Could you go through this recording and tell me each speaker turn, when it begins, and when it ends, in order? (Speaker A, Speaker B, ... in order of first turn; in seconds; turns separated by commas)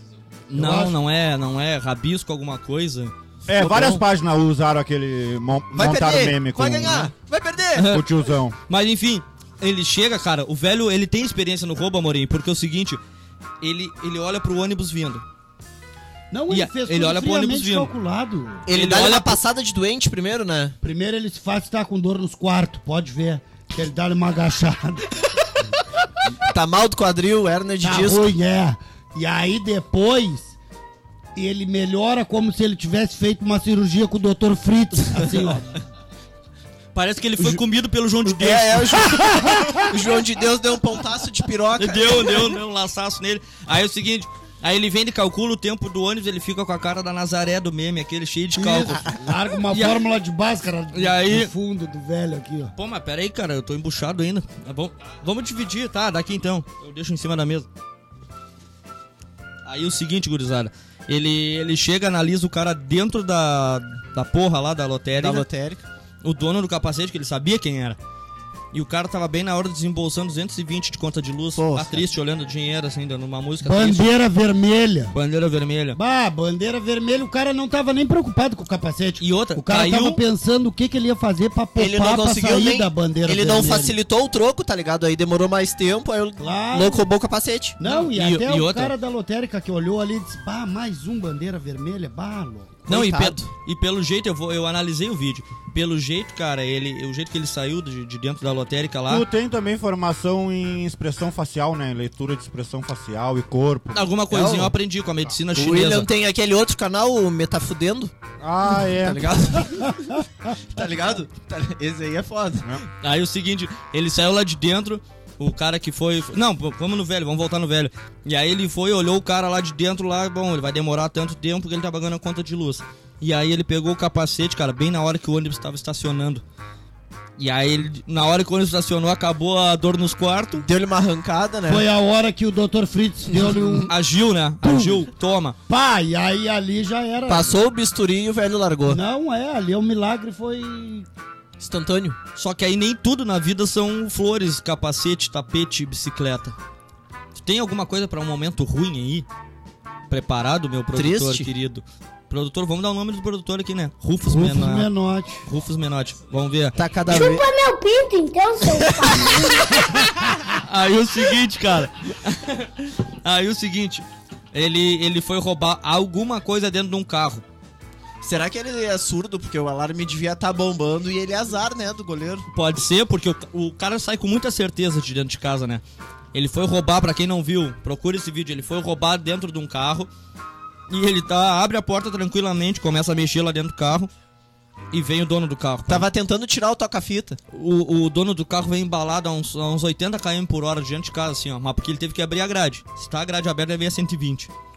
Speaker A: 0.5-4.0, Speaker B: 0.5-1.0, Speaker C: 3.5-7.1, Speaker D: 5.7-7.9, Speaker A: 7.8-8.1, Speaker C: 7.9-8.6, Speaker A: 8.7-13.0, Speaker A: 13.6-15.2, Speaker B: 16.3-18.6, Speaker A: 16.5-17.9, Speaker D: 18.7-20.8, Speaker A: 18.7-19.4, Speaker B: 20.8-25.1, Speaker D: 26.4-28.3, Speaker B: 27.8-30.6, Speaker B: 31.4-35.8, Speaker A: 37.0-39.8, Speaker D: 38.3-39.2, Speaker D: 39.8-42.5, Speaker A: 41.8-50.0, Speaker B: 48.6-52.7, Speaker A: 50.9-51.5, Speaker A: 52.8-57.7, Speaker A: 59.6-65.5, Speaker D: 65.2-65.8, Speaker A: 66.2-68.0, Speaker A: 68.7-74.1, Speaker D: 71.6-72.0, Speaker B: 73.6-75.2, Speaker A: 75.1-76.0, Speaker B: 75.9-84.0, Speaker A: 79.2-80.2, Speaker D: 81.8-87.8, Speaker B: 86.4-87.1, Speaker B: 87.8-92.8, Speaker A: 87.8-88.9, Speaker D: 92.9-93.4, Speaker A: 92.9-99.3, Speaker C: 99.1-104.1, Speaker A: 103.9-106.1, Speaker D: 104.3-104.7, Speaker D: 105.5-108.1, Speaker C: 108.4-109.3, Speaker D: 109.0-109.9, Speaker D: 110.7-112.7, Speaker A: 113.0-126.4, Speaker A: 127.4-130.7, Speaker D: 130.6-131.8, Speaker B: 131.7-133.9, Speaker A: 133.9-135.6, Speaker B: 134.6-135.1, Speaker B: 135.7-137.6, Speaker D: 137.3-139.0, Speaker B: 138.9-141.1, Speaker D: 141.6-142.2, Speaker A: 142.4-146.6, Speaker A: 147.3-149.3, Speaker A: 150.1-154.9, Speaker D: 150.9-151.5, Speaker B: 154.3-155.4, Speaker A: 155.5-156.8, Speaker D: 156.8-157.5, Speaker E: 157.1-159.6, Speaker A: 160.5-167.4, Speaker D: 168.2-172.4, Speaker A: 172.5-175.8, Speaker A: 176.3-180.1, Speaker A: 180.9-184.1, Speaker A: 184.9-186.1, Speaker D: 185.9-187.4, Speaker A: 187.5-194.5